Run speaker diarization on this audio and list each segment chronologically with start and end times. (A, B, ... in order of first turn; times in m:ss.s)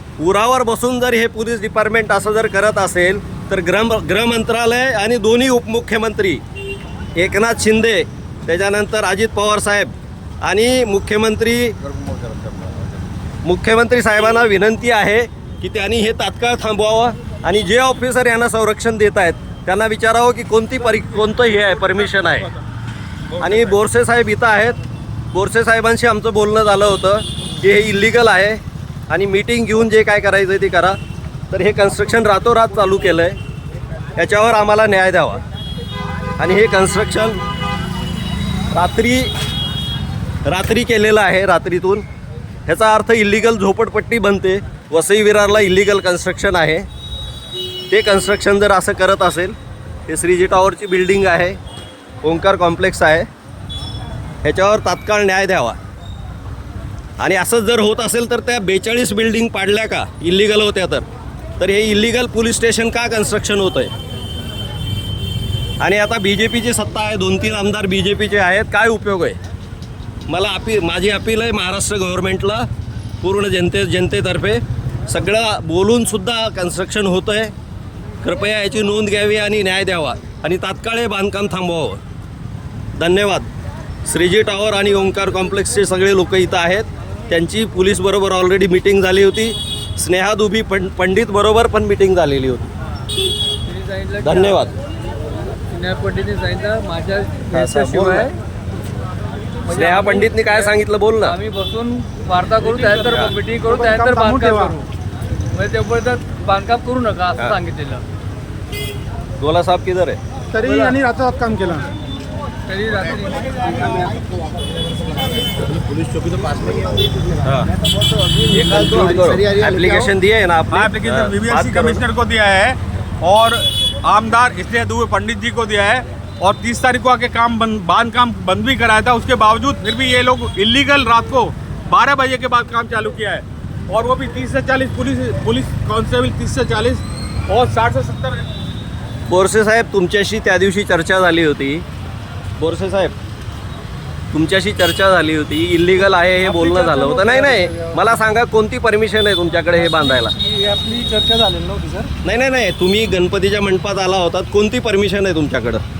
0:00.2-0:06.4 A
0:07.1-0:11.8 A
0:11.9-0:12.8 B
0:13.4-0:22.5 A
0:21.8-0:22.5 B
0:23.3-0:23.7 B
0:23.4-0:24.8 A
0:25.3-0:31.0 A
0:31.5-0:33.4 A
0:34.2-0:35.4 A
0:36.4-0:37.4 A
0:38.7-0:39.3 A
0:40.4-0:42.0 A
0:42.7-0:46.9 A
0:47.9-0:49.6 A
0:50.1-0:51.6 A
0:52.2-0:53.3 A
0:54.4-0:55.8 A
0:57.2-1:01.0 A
1:01.6-1:03.9 A
1:05.8-1:09.4 A
1:10.3-1:12.7 A
1:13.2-1:17.5 A
1:18.2-1:22.0 A
1:23.0-1:23.5 A
1:24.0-1:32.7 A
1:33.6-1:34.7 C
1:34.2-1:34.7 A
1:35.7-1:38.4 C
1:37.5-1:38.3 A
1:39.6-1:44.8 C
1:39.7-1:41.4 A
1:43.1-1:43.3 A
1:43.6-1:44.8 D
1:45.5-1:48.0 C
1:49.4-1:50.2 A
1:50.5-1:51.9 D
1:50.6-1:51.0 C
1:52.6-1:53.9 C
1:53.2-2:00.1 D
1:57.4-1:57.7 A
1:58.5-2:02.0 A
2:00.7-2:18.5 B
2:19.3-2:21.8 A
2:22.6-2:23.1 A
2:24.3-2:30.3 A
2:26.4-2:26.8 B
2:26.8-2:28.0 D
2:29.8-2:32.1 D
2:32.2-2:35.8 A